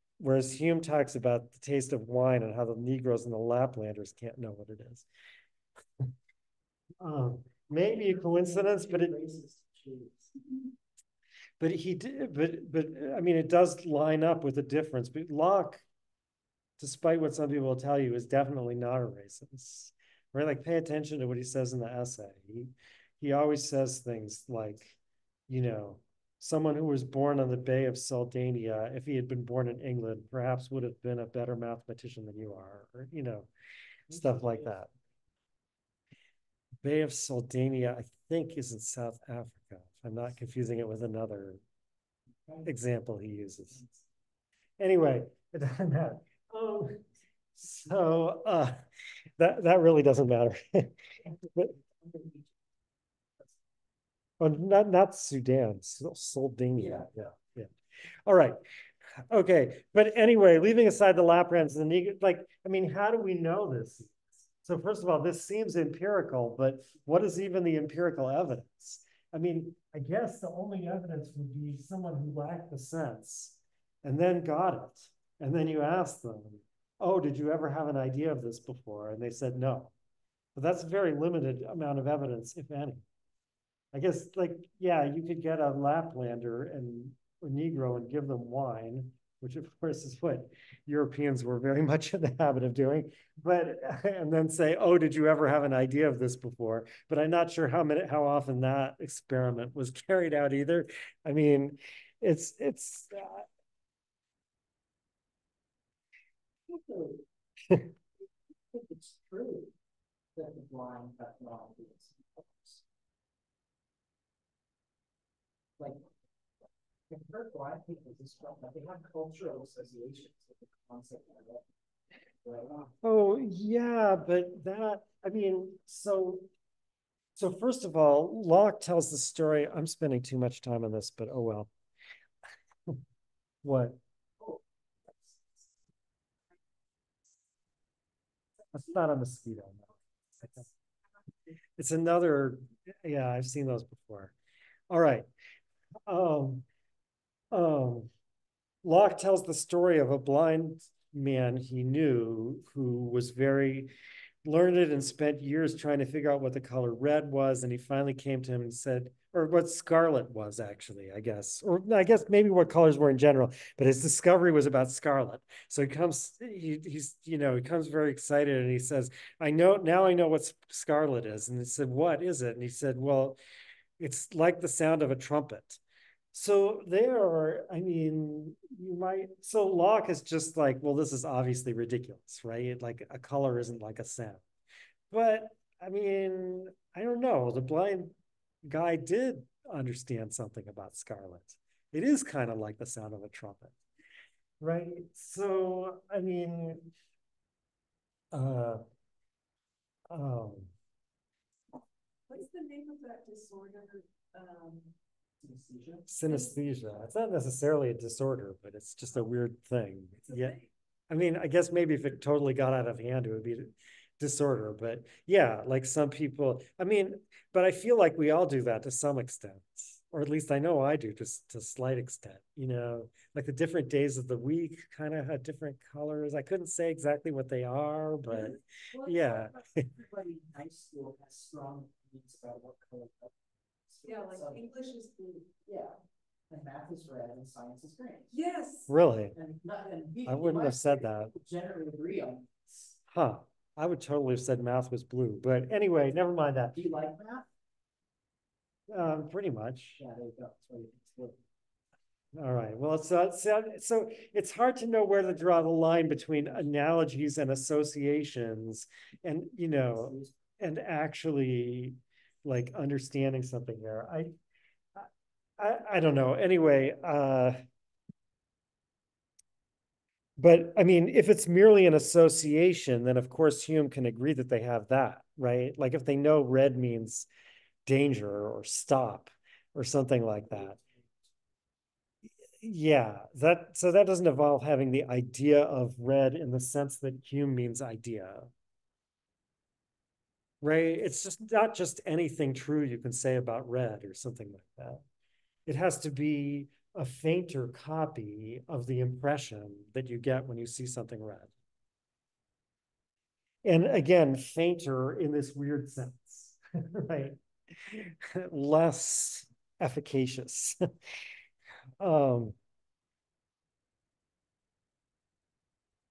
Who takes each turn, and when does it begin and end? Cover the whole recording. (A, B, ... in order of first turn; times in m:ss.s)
0:00.2-0:05.1 A
0:07.0-0:09.1 A
0:07.8-0:10.3 B
0:11.6-0:15.8 A
0:16.8-0:25.0 A
0:25.5-0:33.5 A
0:34.1-0:34.8 B
0:34.1-0:34.9 A
0:36.8-0:41.6 A
0:42.6-0:43.8 A
0:43.8-0:44.0 B
0:44.8-0:47.0 A
0:47.5-0:48.8 A
0:49.4-0:51.0 A
0:51.4-0:52.6 B
0:54.4-0:57.7 A
0:56.8-0:57.1 B
0:58.2-0:58.6 A
0:59.3-1:19.9 A
1:20.5-1:23.0 A
1:23.9-1:43.5 A
1:46.7-1:47.2 B
1:48.7-1:49.7 B
1:50.3-1:52.8 B
1:57.1-2:01.6 B
2:02.4-2:02.9 B
2:03.0-2:06.5 A
2:07.3-2:11.7 A
2:13.6-2:14.0 A
2:14.4-2:15.6 B
2:18.7-2:19.9 A
2:21.8-2:24.3 A
2:24.9-2:25.3 A
2:26.1-2:26.6 A
2:27.5-2:28.1 A
2:28.8-2:33.9 A
2:34.4-2:53.4 A
2:54.0-2:55.8 A
2:56.3-3:04.4 A
3:05.1-3:13.8 A
3:14.6-3:16.9 A
3:18.3-3:18.8 A
3:20.1-3:20.7 A
3:22.3-3:24.9 C
3:25.4-3:26.0 B
3:26.1-3:49.8 A
3:26.2-3:26.6 C
3:30.2-3:30.6 C
3:48.9-3:53.3 B
3:53.9-3:54.6 B
3:54.0-3:55.5 C
3:55.6-3:56.0 B
3:56.5-3:58.4 B
3:58.3-3:58.9 C
3:58.9-3:59.3 A
3:59.3-4:03.0 B
4:00.2-4:01.3 A
4:03.1-4:06.9 A
4:06.7-4:07.5 B
4:08.9-4:10.0 A
4:10.0-4:11.4 B
4:12.3-4:24.4 A
4:19.9-4:20.4 B
4:24.9-4:27.6 A
4:30.4-4:37.3 A
4:37.8-4:40.8 A
4:40.5-4:40.8 B
4:42.6-4:48.5 A
4:50.6-4:55.0 A
4:55.6-5:01.5 A
5:03.6-5:10.8 A
5:12.0-5:12.6 A